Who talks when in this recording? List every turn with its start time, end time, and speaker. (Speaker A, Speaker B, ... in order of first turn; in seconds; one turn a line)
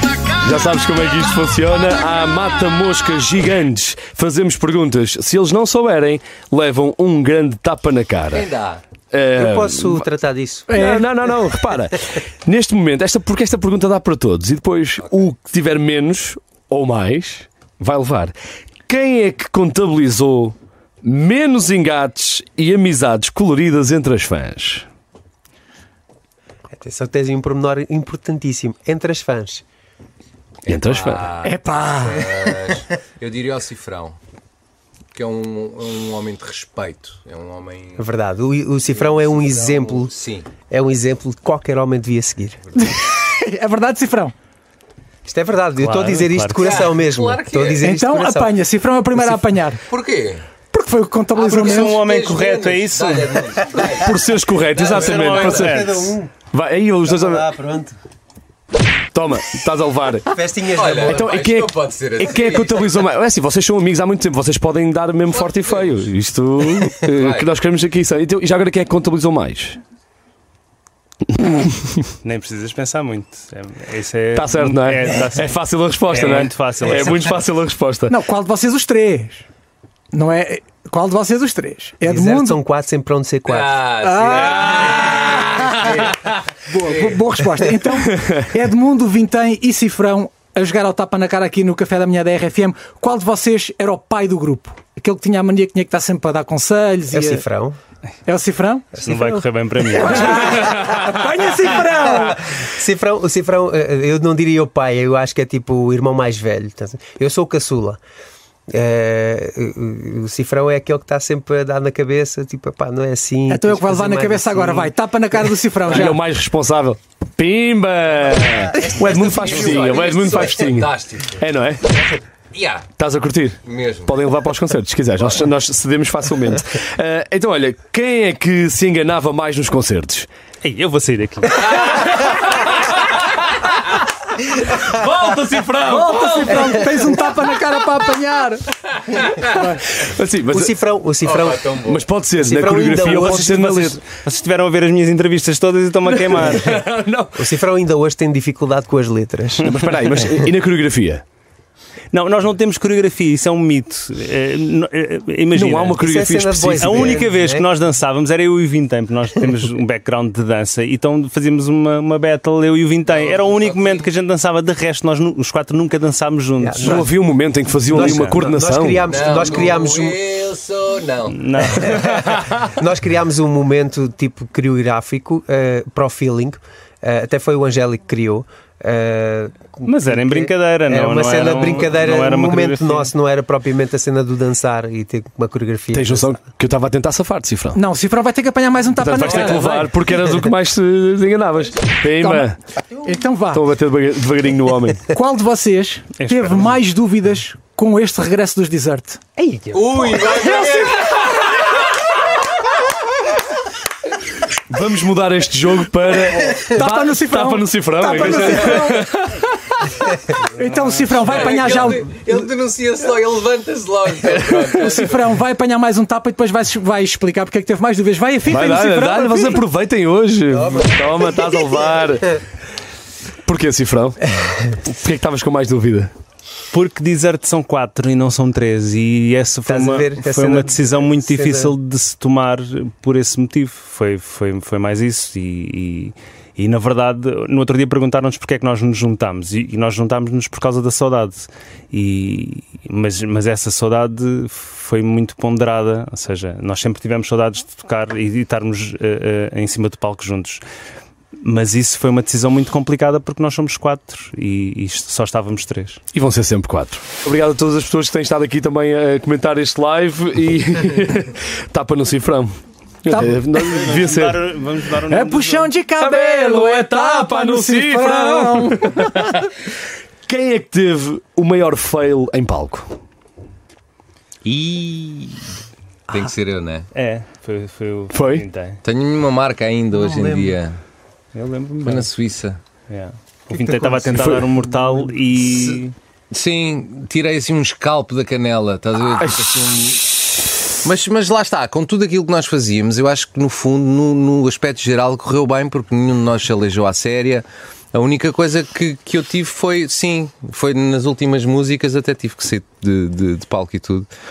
Speaker A: 0.4-8.5
Speaker B: 8.3-8.8
Speaker A: 9.1-10.0
Speaker C: 9.3-10.7
Speaker D: 10.7-11.1
Speaker A: 10.7-18.3
Speaker A: 18.9-24.9
Speaker C: 26.7-29.6
Speaker A: 30.7-31.3
Speaker B: 30.7-34.2
Speaker D: 31.4-32.6
Speaker B: 35.1-38.0
Speaker C: 38.0-42.6
Speaker B: 38.9-40.5
Speaker D: 42.8-44.3
Speaker C: 45.2-48.6
Speaker E: 45.8-46.8
Speaker B: 46.6-47.9
Speaker D: 47.8-49.8
Speaker C: 49.1-49.4
Speaker B: 49.9-50.5
Speaker D: 50.7-52.0
Speaker B: 51.4-54.1
Speaker E: 51.5-53.4
Speaker A: 53.9-57.4
Speaker C: 54.7-56.3
Speaker E: 54.8-56.1
Speaker B: 54.8-55.8
Speaker C: 57.0-58.0
Speaker A: 59.1-60.2
Speaker C: 60.3-61.4
Speaker B: 60.7-62.8
Speaker A: 61.0-69.8
Speaker B: 67.2-67.5
Speaker A: 71.3-72.0
Speaker E: 72.2-75.5
Speaker A: 74.3-78.2
Speaker E: 76.1-77.3
Speaker B: 76.1-76.4
Speaker B: 77.0-77.4
Speaker D: 78.1-79.4
Speaker D: 80.1-82.6
Speaker C: 82.0-83.8
Speaker B: 83.4-86.1
Speaker D: 84.0-86.0
Speaker D: 86.6-97.4
Speaker B: 86.9-87.1
Speaker C: 97.1-97.8
Speaker D: 98.2-98.9
Speaker C: 99.0-99.4
Speaker E: 99.0-100.5
Speaker D: 100.0-102.3
Speaker C: 100.1-100.9
Speaker C: 101.8-108.0
Speaker C: 108.7-114.9
Speaker D: 113.5-116.2
Speaker B: 115.8-116.2
Speaker A: 115.9-121.8
Speaker C: 118.8-120.0
Speaker B: 119.3-121.4
Speaker B: 122.5-122.9
Speaker A: 123.0-130.3
Speaker B: 123.6-124.2
Speaker E: 130.6-131.7
Speaker A: 132.2-132.6
Speaker A: 134.8-136.9
Speaker D: 135.8-138.6
Speaker D: 139.4-139.8
Speaker A: 140.0-140.7
Speaker C: 140.5-141.7
Speaker B: 141.2-142.1
Speaker A: 141.8-144.0
Speaker C: 142.3-144.0
Speaker E: 143.2-143.5
Speaker E: 144.1-146.8
Speaker A: 146.0-147.5
Speaker C: 147.3-150.5
Speaker A: 149.6-151.2
Speaker E: 152.1-156.0
Speaker A: 155.5-157.2
Speaker C: 156.0-157.7
Speaker E: 156.8-167.0
Speaker B: 163.1-164.1
Speaker C: 166.6-167.1
Speaker A: 166.8-169.2
Speaker C: 167.9-170.3
Speaker B: 169.1-172.6
Speaker E: 171.3-172.1
Speaker C: 171.8-172.1
Speaker C: 172.8-186.3
Speaker E: 179.8-183.1
Speaker A: 185.9-187.8
Speaker D: 187.7-189.9
Speaker A: 189.0-192.6
Speaker D: 192.2-192.4
Speaker D: 193.0-193.6
Speaker A: 193.5-195.0
Speaker D: 195.1-199.2
Speaker E: 196.2-196.7
Speaker C: 199.4-200.5
Speaker B: 199.7-201.4
Speaker D: 200.2-200.9
Speaker A: 204.7-209.4
Speaker D: 206.6-209.0
Speaker B: 208.3-208.8
Speaker D: 210.5-212.1
Speaker B: 211.2-215.4
Speaker D: 214.8-219.6
Speaker A: 218.4-222.4
Speaker C: 220.5-221.3
Speaker A: 223.4-226.1
Speaker E: 226.7-250.6
Speaker C: 229.7-231.7
Speaker E: 251.4-256.0
Speaker A: 256.1-262.5
Speaker A: 263.0-264.4
Speaker D: 263.1-263.4
Speaker E: 263.6-265.7
Speaker D: 265.1-269.3
Speaker A: 266.0-269.2
Speaker A: 270.2-272.9
Speaker B: 274.4-275.5
Speaker B: 276.1-276.9
Speaker E: 276.9-278.8
Speaker A: 278.1-278.4
Speaker B: 278.8-280.8
Speaker C: 279.9-280.6
Speaker E: 281.3-282.1
Speaker B: 281.8-282.6
Speaker E: 282.9-285.9
Speaker C: 283.5-285.2
Speaker B: 285.4-285.8
Speaker B: 286.3-290.2
Speaker B: 290.8-304.1